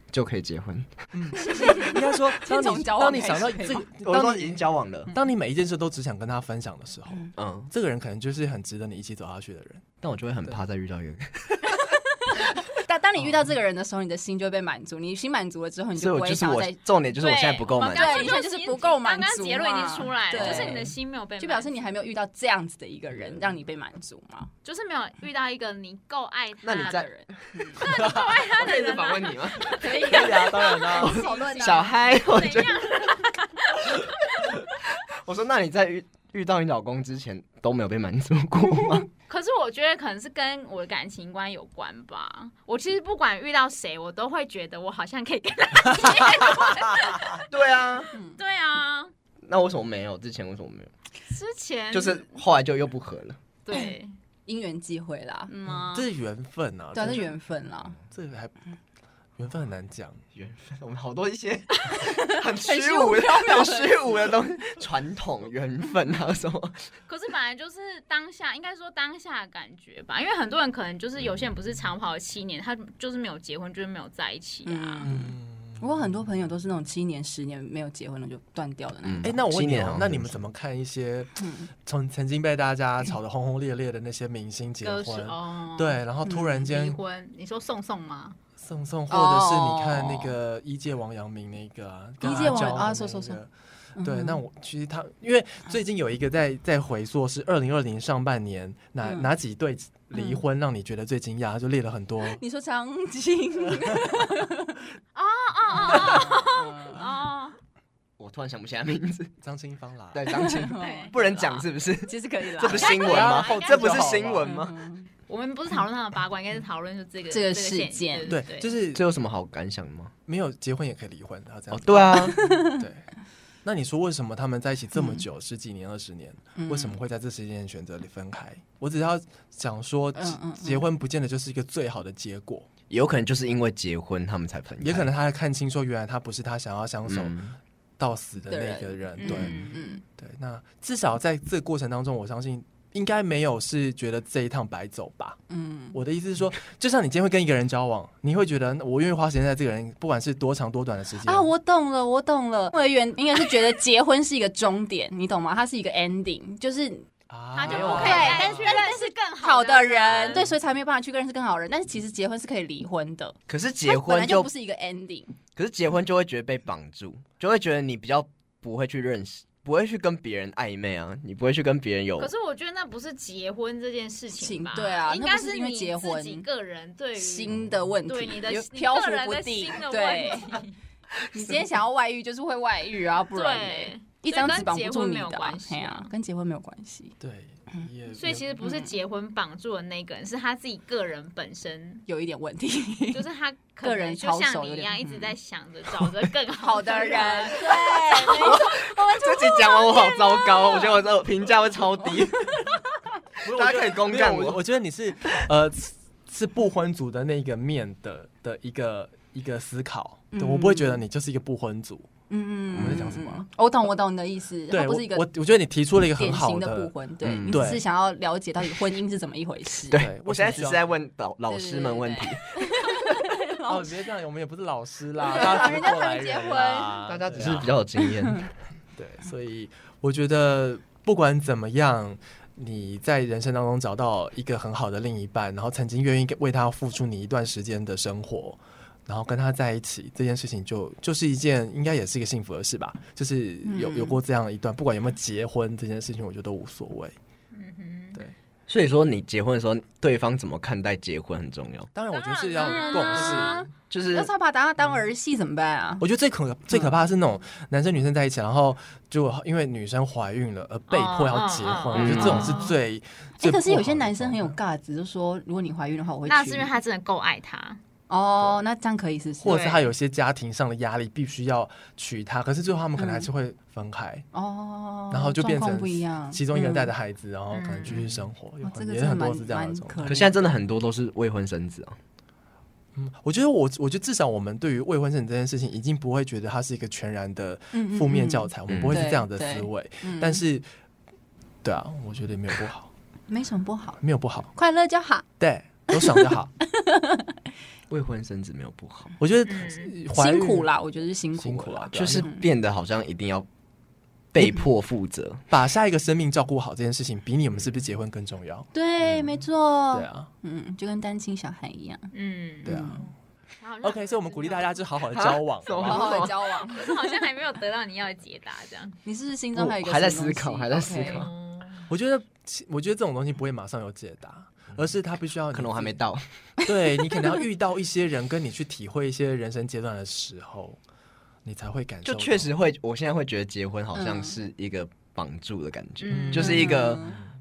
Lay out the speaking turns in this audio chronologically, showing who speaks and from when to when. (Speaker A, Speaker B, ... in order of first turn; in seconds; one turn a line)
Speaker A: 0.1-1.6
Speaker B: 1.1-9.8
Speaker C: 1.5-3.9
Speaker A: 4.0-5.1
Speaker A: 7.4-7.7
Speaker A: 10.0-11.8
Speaker C: 11.7-16.8
Speaker A: 16.0-18.4
Speaker D: 17.2-21.8
Speaker C: 17.9-24.5
Speaker A: 20.4-20.9
Speaker D: 24.6-27.1
Speaker A: 26.6-33.2
Speaker C: 26.7-27.9
Speaker D: 27.8-34.5
Speaker B: 27.8-28.3
Speaker C: 29.8-32.0
Speaker B: 29.9-31.2
Speaker A: 34.5-39.1
Speaker D: 39.3-47.5
Speaker A: 47.5-48.1
Speaker C: 48.1-48.4
Speaker D: 48.4-49.1
Speaker A: 49.5-50.9
Speaker D: 51.3-52.4
Speaker A: 51.9-53.4
Speaker D: 53.6-54.1
Speaker C: 54.5-55.5
Speaker D: 55.5-56.1
Speaker B: 55.9-57.3
Speaker C: 56.9-58.0
Speaker B: 58.1-58.6
Speaker B: 59.4-60.2
Speaker A: 60.3-66.8
Speaker C: 62.0-64.1
Speaker D: 67.1-75.1
Speaker C: 74.7-79.4
Speaker B: 75.0-76.2
Speaker A: 79.0-80.5
Speaker B: 79.2-87.0
Speaker C: 81.4-81.7
Speaker D: 84.8-86.0
Speaker C: 86.3-86.7
Speaker D: 86.6-88.4
Speaker B: 88.6-102.4
Speaker C: 89.1-90.3
Speaker C: 92.2-93.4
Speaker C: 94.0-94.4
Speaker C: 99.0-99.3
Speaker C: 100.2-100.4
Speaker C: 102.2-104.8
Speaker B: 103.8-104.1
Speaker D: 105.2-107.6
Speaker C: 105.7-107.0
Speaker A: 108.2-109.3
Speaker B: 109.4-110.3
Speaker A: 110.1-114.8
Speaker C: 110.3-112.9
Speaker D: 110.8-111.5
Speaker D: 112.7-114.2
Speaker B: 112.9-114.6
Speaker C: 114.4-115.1
Speaker D: 115.3-118.7
Speaker C: 117.3-118.3
Speaker B: 118.3-119.0
Speaker A: 118.9-120.1
Speaker B: 120.3-123.0
Speaker A: 121.7-122.6
Speaker C: 122.1-122.9
Speaker B: 123.7-132.7
Speaker C: 125.0-125.2
Speaker C: 126.5-127.0
Speaker C: 130.2-130.8
Speaker A: 132.9-135.1
Speaker B: 134.8-137.3
Speaker A: 137.1-137.6
Speaker B: 138.0-145.4
Speaker C: 138.5-140.0
Speaker D: 139.2-139.7
Speaker C: 145.5-146.0
Speaker B: 145.9-151.5
Speaker C: 151.2-157.1
Speaker B: 157.3-158.8
Speaker D: 157.6-160.5
Speaker A: 157.7-158.4
Speaker C: 157.7-165.3
Speaker A: 163.5-164.5
Speaker A: 165.6-172.3
Speaker D: 172.2-180.8
Speaker C: 174.3-176.5
Speaker C: 177.2-180.6
Speaker C: 181.3-187.2
Speaker D: 183.3-186.1
Speaker B: 187.2-188.5
Speaker D: 188.1-192.1
Speaker C: 188.6-188.9
Speaker C: 192.1-193.2
Speaker D: 193.1-198.7
Speaker C: 193.8-195.3
Speaker C: 196.6-201.0
Speaker A: 198.3-202.7
Speaker B: 203.4-212.1
Speaker A: 203.4-204.6
Speaker C: 210.3-211.0
Speaker C: 212.3-215.3
Speaker B: 212.8-213.5
Speaker A: 212.8-213.1
Speaker B: 214.7-216.9
Speaker C: 216.2-220.0
Speaker A: 217.2-217.6
Speaker B: 217.5-217.8
Speaker A: 219.9-223.1
Speaker B: 219.9-220.9
Speaker C: 221.5-224.0
Speaker B: 223.7-227.7
Speaker C: 225.2-227.0
Speaker A: 227.1-228.5
Speaker B: 228.9-247.2
Speaker C: 243.7-244.2
Speaker D: 247.5-248.2
Speaker A: 248.7-251.9
Speaker B: 251.9-253.7
Speaker D: 252.1-253.7
Speaker C: 252.6-256.0
Speaker A: 253.1-254.3
Speaker B: 256.0-264.6
Speaker D: 260.9-262.8
Speaker A: 261.9-262.7
Speaker C: 263.4-266.7
Speaker D: 266.3-267.8
Speaker C: 268.1-269.8
Speaker B: 269.4-274.3
Speaker C: 273.0-273.3
Speaker C: 274.3-276.9
Speaker B: 275.1-280.2
Speaker D: 277.5-278.1
Speaker C: 277.9-280.4
Speaker A: 280.0-282.0
Speaker B: 282.9-290.7
Speaker C: 287.7-290.4
Speaker A: 288.7-289.1
Speaker B: 291.6-292.9
Speaker C: 293.3-294.0
Speaker B: 294.0-294.5
Speaker C: 294.6-295.2
Speaker B: 295.4-296.5
Speaker C: 295.9-297.4
Speaker A: 297.9-299.1
Speaker B: 299.2-300.7
Speaker D: 299.5-299.9
Speaker C: 300.1-302.4
Speaker B: 301.4-302.2
Speaker A: 301.9-303.5
Speaker A: 304.3-305.4
Speaker B: 305.5-308.7
Speaker C: 308.7-312.1
Speaker B: 309.9-310.3
Speaker D: 312.1-312.8
Speaker C: 312.6-313.1
Speaker B: 312.6-313.1
Speaker D: 313.6-314.8
Speaker B: 313.8-316.3
Speaker A: 315.1-316.4
Speaker C: 315.8-317.1
Speaker D: 316.5-319.0
Speaker C: 319.1-321.3
Speaker A: 319.5-321.3
Speaker D: 320.9-321.9
Speaker B: 321.9-326.0
Speaker A: 325.5-326.2
Speaker B: 326.7-330.8
Speaker B: 331.4-332.5
Speaker A: 332.1-337.3
Speaker C: 333.9-334.4
Speaker D: 336.0-336.7
Speaker B: 336.1-336.8
Speaker C: 336.4-337.2